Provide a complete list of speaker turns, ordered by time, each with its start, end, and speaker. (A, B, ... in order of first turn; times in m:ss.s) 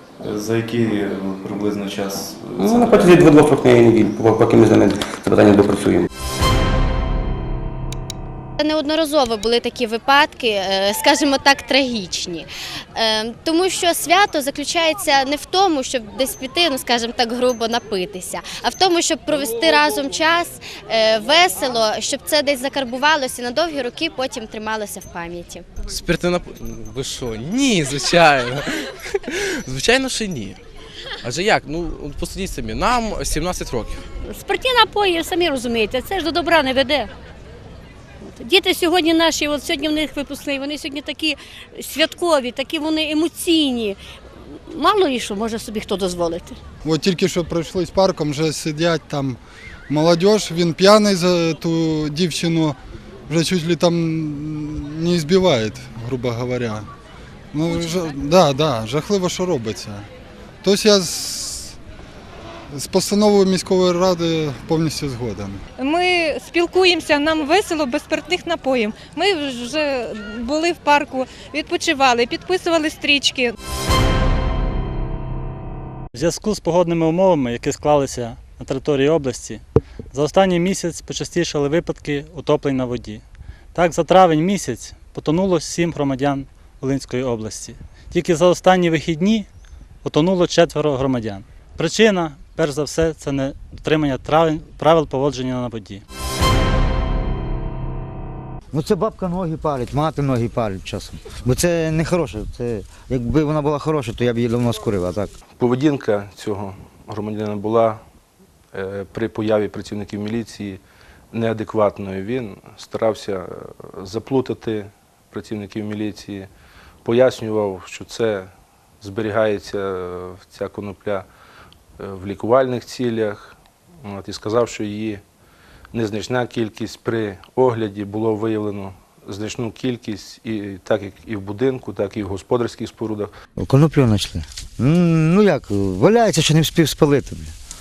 0:00.2-0:03.3 A
0:02.6-0:06.1 B
0:08.6-0:12.4 C
0:13.0-0:25.6 C
0:26.0-0:28.3 D
0:29.8-0:30.5 D
0:31.3-0:33.9 D
0:34.3-0:37.1 E
0:38.4-0:43.9 E
0:44.7-0:46.5 E
0:46.8-0:49.4 F
0:49.9-0:52.7 F
0:53.3-0:56.8 F
0:57.5-1:00.0 F
1:00.6-1:01.7 F
1:02.8-1:05.6 F
1:06.1-1:09.9 G
1:10.6-1:13.4 G
1:16.1-1:23.2 H
1:23.7-1:29.5 H
1:30.0-1:36.0 H
1:38.7-1:45.3 I
1:45.6-1:48.0 J
1:48.7-1:50.8 J
1:51.3-1:56.5 J
1:57.0-1:58.5 J
1:59.0-2:01.3 J
2:02.0-2:05.2 J
2:05.9-2:13.3 J
2:13.6-2:17.5 I